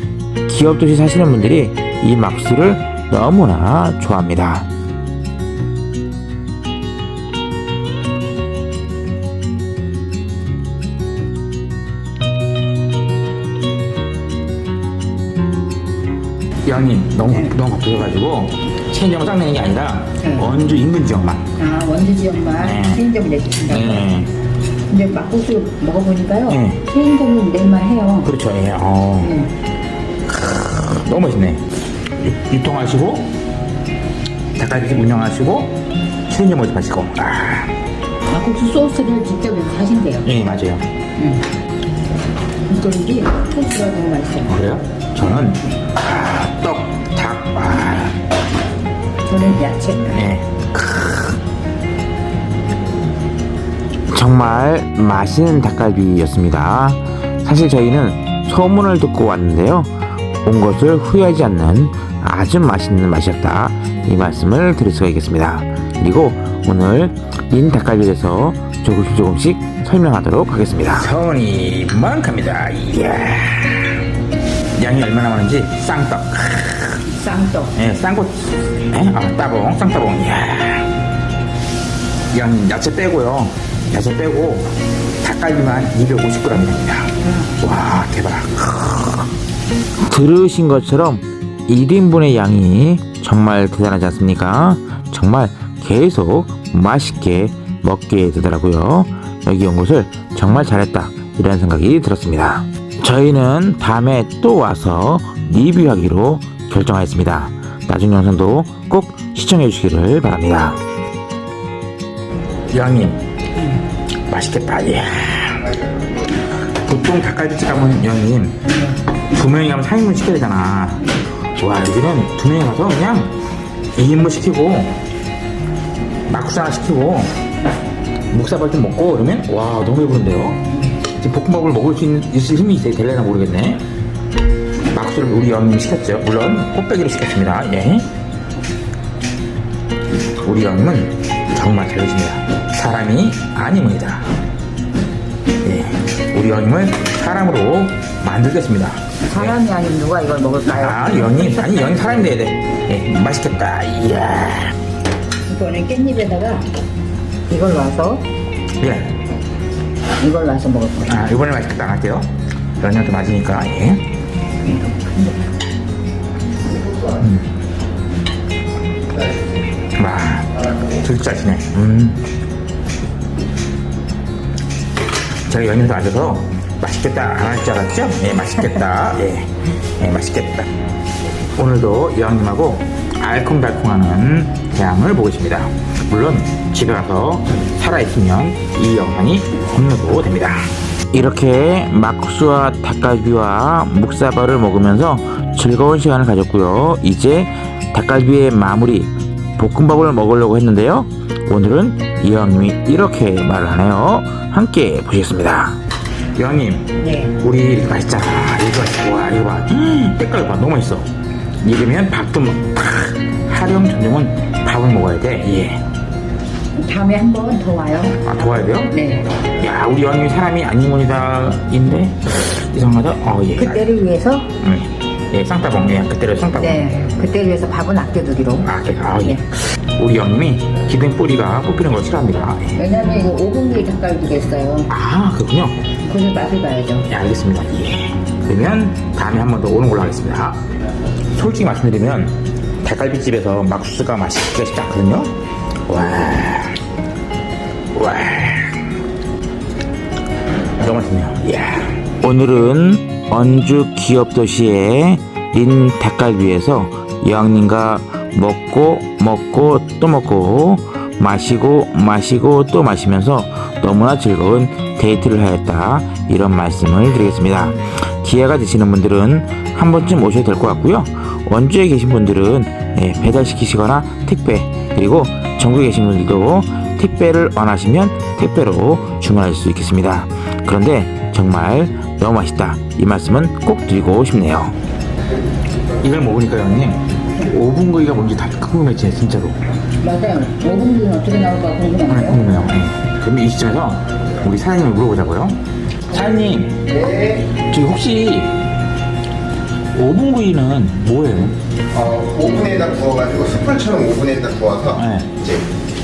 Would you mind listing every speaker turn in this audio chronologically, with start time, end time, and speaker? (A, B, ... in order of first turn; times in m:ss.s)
0:00.5-0:04.7 A
0:16.6-0:21.5 A
0:17.2-0:17.5 B
0:20.2-0:20.5 B
0:21.6-0:24.2 B
0:22.6-0:23.0 A
0:23.7-0:24.3 A
0:24.9-0:28.3 B
0:26.5-0:26.8 A
0:28.2-0:29.3 A
0:29.2-0:29.5 B
0:30.3-0:31.6 A
0:32.2-0:33.3 A
0:34.6-0:35.8 A
0:36.3-0:37.7 A
0:38.3-0:40.3 B
0:40.2-0:40.8 A
0:41.2-0:41.4 B
0:42.7-0:44.6 B
0:44.4-0:48.2 A
0:49.3-0:50.3 B
0:50.1-0:51.4 A
0:54.1-0:59.9 A
1:00.4-1:14.0 A
1:14.8-1:17.0 A
1:17.0-1:17.7 B
1:17.7-1:20.9 A
1:22.3-1:24.7 A
1:25.2-1:29.2 A
1:27.2-1:27.5 B
1:30.0-1:50.8 A
1:52.7-1:53.2 A
1:54.3-1:55.7 A
1:55.7-1:56.3 C
1:56.8-1:58.6 A
1:59.3-2:03.3 A
2:04.0-2:04.9 A
2:06.3-2:07.3 A
2:08.3-2:10.6 A
2:11.2-2:13.8 A
2:14.9-2:18.1 A
2:20.4-2:24.2 A
2:25.6-2:29.6 A
2:29.2-2:31.8 B
2:30.6-2:34.7 A
2:35.5-2:36.7 B
2:37.5-2:38.2 B
2:38.8-2:39.1 A
2:40.2-2:41.2 B
2:41.1-2:42.2 A
2:42.8-2:44.0 A
2:44.6-2:45.4 B
2:46.7-2:47.2 C
2:47.2-2:47.4 A
2:49.1-2:49.5 C
2:50.0-2:52.2 A
2:55.5-3:00.6 A
3:01.6-3:25.8 A
3:26.4-3:31.0 A
3:27.0-3:27.3 B
3:31.6-3:35.8 A
3:36.8-3:38.2 B
3:38.2-3:38.9 A
3:38.8-3:39.2 B
3:39.6-3:43.8 A
3:43.6-3:44.5 B
3:44.6-3:46.8 A
3:46.5-3:49.4 B
3:48.6-3:52.7 A
3:52.7-3:54.9 B
3:54.9-3:55.8 A
3:56.0-3:57.1 B
3:57.1-4:00.6 A
4:01.3-4:05.3 A
4:05.9-4:06.8 A
4:07.9-4:08.8 A
4:10.8-4:44.7 A
4:46.0-4:49.6 A
4:50.0-4:52.4 B
4:52.1-4:55.6 A
4:56.1-4:56.8 A
4:56.9-4:57.5 C
4:57.6-4:58.5 A
4:59.9-5:01.5 A
5:01.9-5:05.6 C
5:05.0-5:05.3 A